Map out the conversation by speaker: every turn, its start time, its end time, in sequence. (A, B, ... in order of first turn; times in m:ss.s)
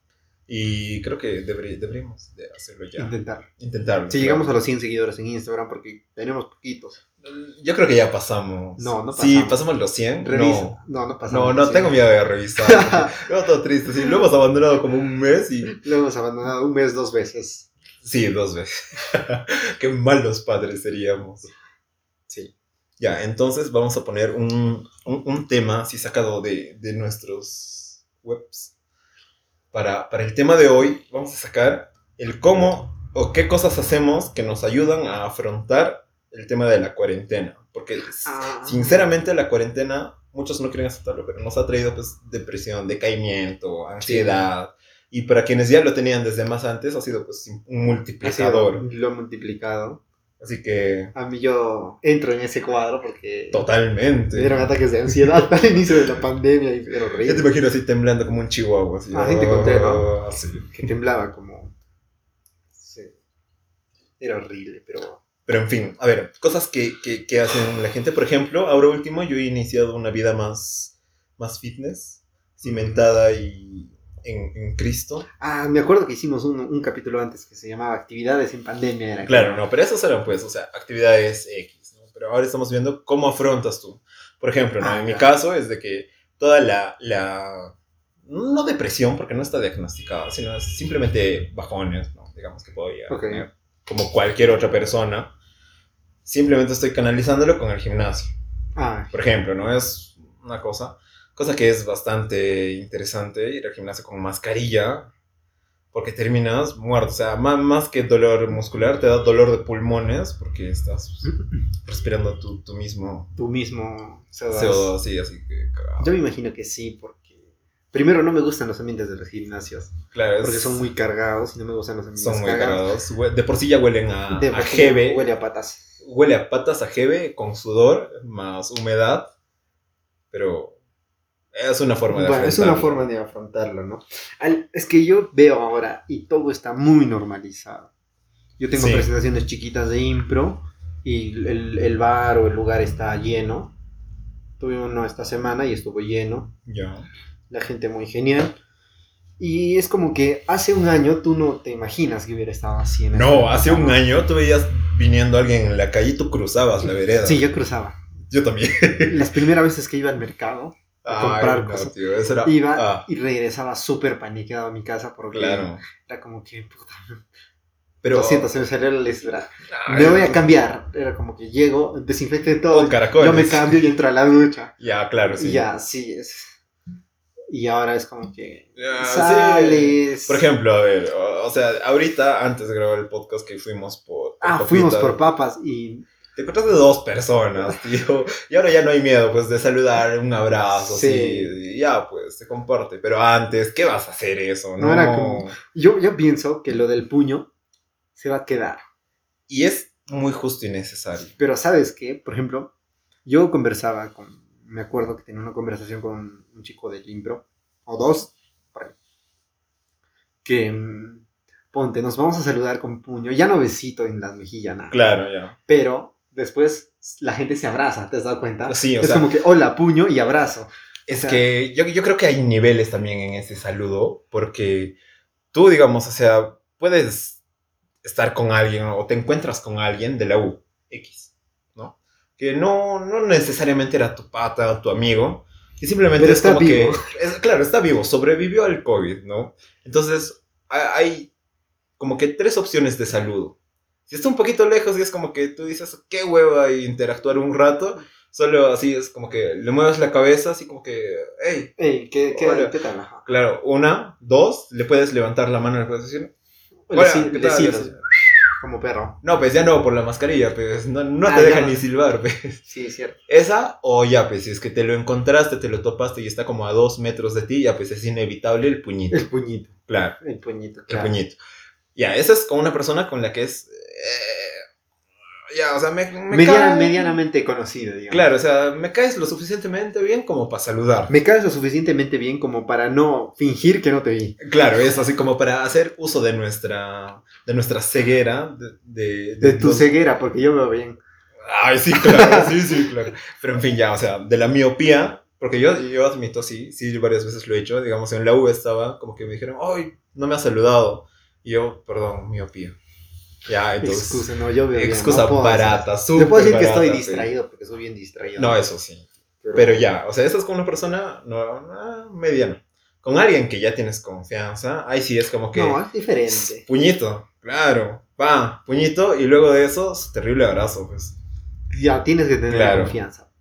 0:00.5-0:04.5 A
0:03.0-0:03.5 B
0:04.1-0:07.0 B
0:07.2-0:15.8 A
0:08.8-0:09.6 B
0:10.2-0:12.0 B
0:12.6-0:13.2 B
0:15.7-0:17.7 B
0:18.0-0:21.5 A
0:23.0-0:28.7 A
0:29.7-0:48.9 A
0:38.2-0:39.0 B
0:44.0-0:44.5 B
0:48.2-0:50.0 B
0:50.4-0:51.1 A
0:51.1-0:53.7 B
0:53.5-0:55.4 A
0:54.3-0:57.5 B
0:57.2-1:00.7 A
0:59.1-1:00.1 B
1:00.7-1:01.7 B
1:02.7-1:03.1 B
1:04.2-1:05.2 B
1:05.5-1:15.3 A
1:12.6-1:13.0 B
1:15.4-1:19.6 B
1:19.3-1:27.8 A
1:24.8-1:25.3 B
1:28.3-1:35.3 A
1:33.1-1:33.4 B
1:36.2-1:38.3 A
1:38.8-1:39.2 B
1:39.1-1:45.1 A
1:45.9-1:53.3 A
1:51.2-1:51.5 B
1:53.4-1:55.0 B
1:54.5-1:56.2 A
1:56.0-1:57.4 B
1:57.9-2:02.9 B
2:00.1-2:00.9 A
2:02.2-2:05.3 A
2:04.3-2:05.9 B
2:06.0-2:09.3 A
2:10.3-2:10.8 A
2:11.5-2:13.0 A
2:12.1-2:17.9 B
2:18.6-2:23.7 B
2:18.7-2:19.1 A
2:24.6-2:26.5 B
2:26.7-2:27.1 A
2:27.5-2:28.6 B
2:29.4-2:34.0 B
2:33.1-2:37.4 A
2:37.2-2:38.0 B
2:38.3-2:39.3 A
2:39.0-2:47.2 B
2:41.0-2:43.1 A
2:45.3-2:45.8 A
2:48.0-2:48.5 A
2:48.1-2:54.7 B
2:49.7-2:50.5 A
2:52.7-2:53.8 A
2:54.8-2:55.7 A
2:55.3-2:56.6 B
2:57.5-3:00.4 B
2:58.8-3:05.2 A
3:04.4-3:06.0 B
3:06.4-3:15.6 A
3:10.7-3:11.6 B
3:14.8-3:17.5 B
3:18.2-3:18.8 B
3:19.5-3:21.3 A
3:21.2-3:22.7 B
3:23.3-3:29.0 B
3:30.4-3:35.0 B
3:34.9-3:35.6 A
3:35.7-3:41.4 B
3:38.7-3:39.3 A
3:41.1-3:45.0 A
3:45.5-3:47.4 A
3:48.0-4:01.3 A
3:56.2-3:57.0 B
4:02.0-4:03.6 A
4:04.1-4:11.7 A
4:11.8-4:13.3 B
4:12.3-4:12.8 A
4:13.3-4:16.3 A
4:16.9-4:19.2 B
4:16.9-4:18.0 A
4:19.2-4:22.6 A
4:21.2-4:21.8 B
4:22.6-4:23.2 B
4:23.3-4:29.2 A
4:29.1-4:31.2 B
4:29.9-4:30.2 A
4:30.9-4:31.4 A
4:32.0-4:34.6 A
4:35.5-4:37.2 A
4:36.3-4:38.3 B
4:38.1-4:41.1 A
4:41.1-4:44.4 B
4:44.4-4:49.9 A
4:49.4-4:51.0 B
4:51.4-5:02.8 A
4:52.0-4:52.5 B
5:03.5-5:07.3 A
5:03.8-5:08.6 B
5:08.4-5:21.2 A
5:09.4-5:09.9 B
5:15.5-5:16.6 B
5:21.7-5:23.3 B
5:22.5-5:23.0 A